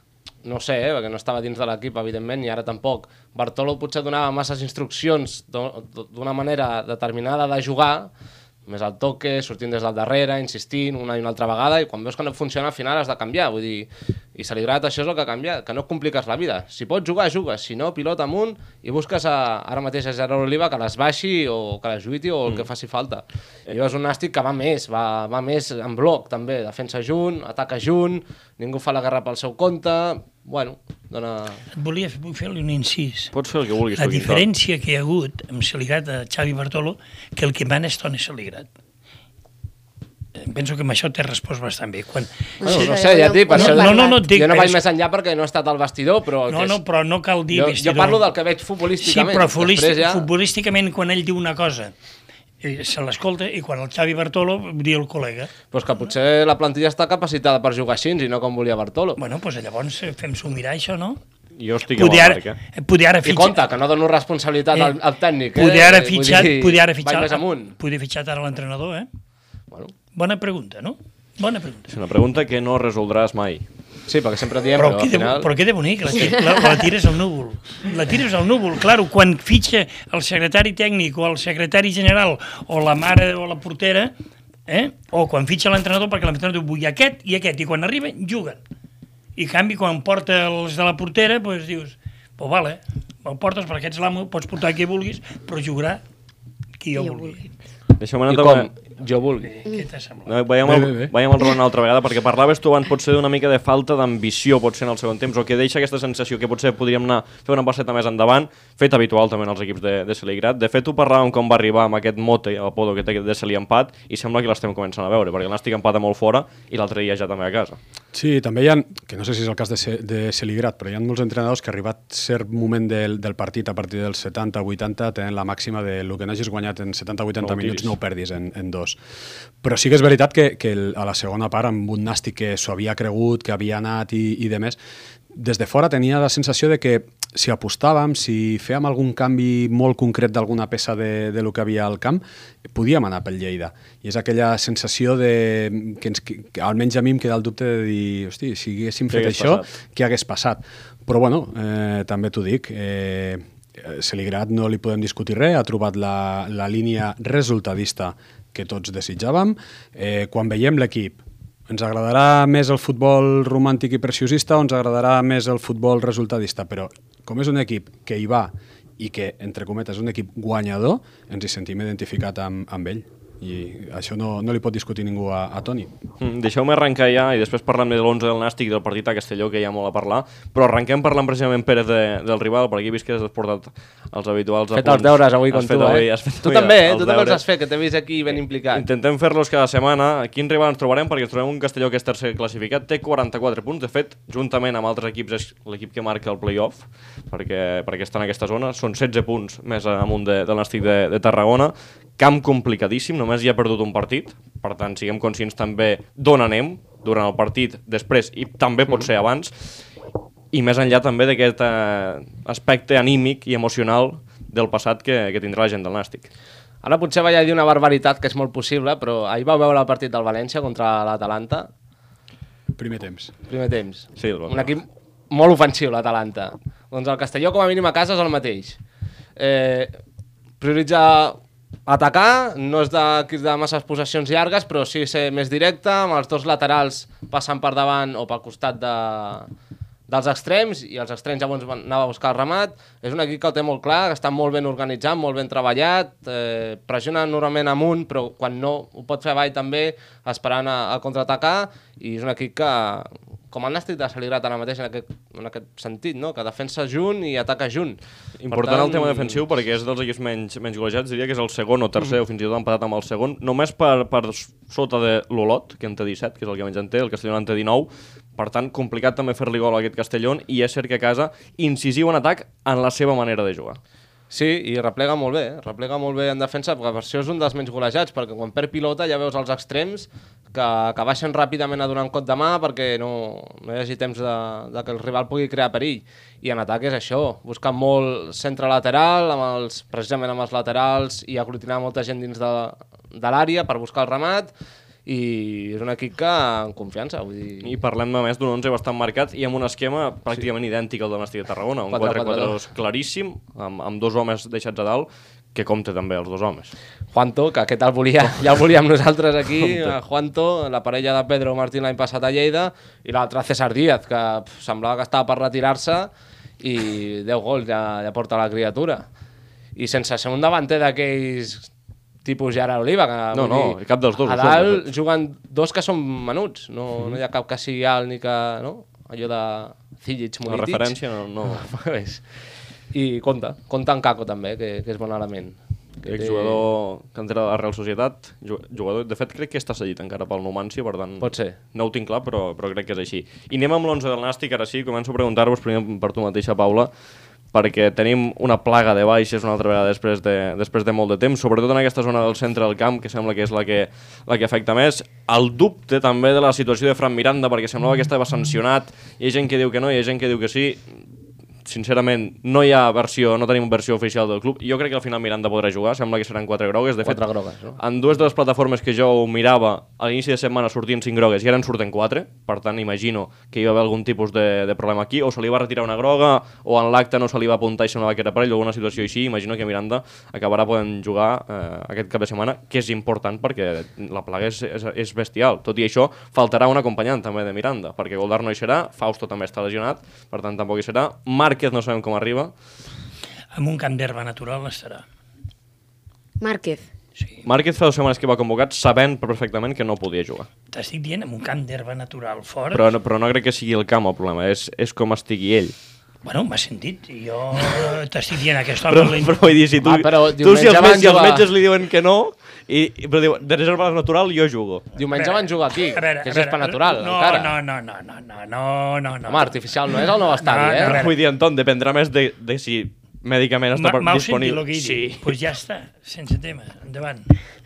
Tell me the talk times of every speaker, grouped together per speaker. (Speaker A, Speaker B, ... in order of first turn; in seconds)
Speaker A: 0.4-8.1, 8.7-31.6, 42.6-46.8, 47.5-50.3, 55.7-59.2, 63.2-67.8, 74.1-75.5, 98.3-99.6, 184.7-188.8, 216.8-221.7, 223.5-228.8, 229.4-229.9, 230.6-239.5, 240.1-259.4, 274.3-294.5, 295.1-297.8, 301.9-302.6, 307.1-319.1, 319.8-321.7, 322.2-332.3, 332.9-336.6, 341.2-341.6, 367.0-367.8, 409.8-411.5, 414.9-417.6, 419.2-421.0
Speaker B: 31.8-33.3, 34.0-38.7, 40.4-42.9, 43.5-44.8, 46.5-48.2, 49.0-51.9, 52.6-55.5, 59.2-61.2, 61.9-63.6, 65.5-69.1, 70.1-71.9, 74.8-84.1, 84.7-88.6, 89.3-96.0, 96.8-97.4, 99.5-100.3, 393.5-395.0, 400.7-402.8, 406.2-409.5, 415.1-421.1, 423.8-427.4
Speaker C: 33.3-34.4, 61.5-62.6, 71.9-73.6, 98.0-98.7, 100.2-117.8, 127.4-127.9, 149.1-149.7, 176.2-187.4, 188.7-209.7, 210.5-216.3, 224.2-224.7, 258.4-273.8, 297.6-306.7, 323.3-324.9, 330.4-331.6, 336.1-346.9, 347.5-361.0, 361.6-367.2, 367.8-392.5, 397.4-400.5, 402.7-405.8, 408.9-414.9, 420.8-425.3
Speaker D: 42.6-44.2, 97.0-97.5, 396.4-396.9
Speaker E: 100.6-101.1, 118.1-129.0, 129.6-134.8, 135.3-175.9, 222.8-223.3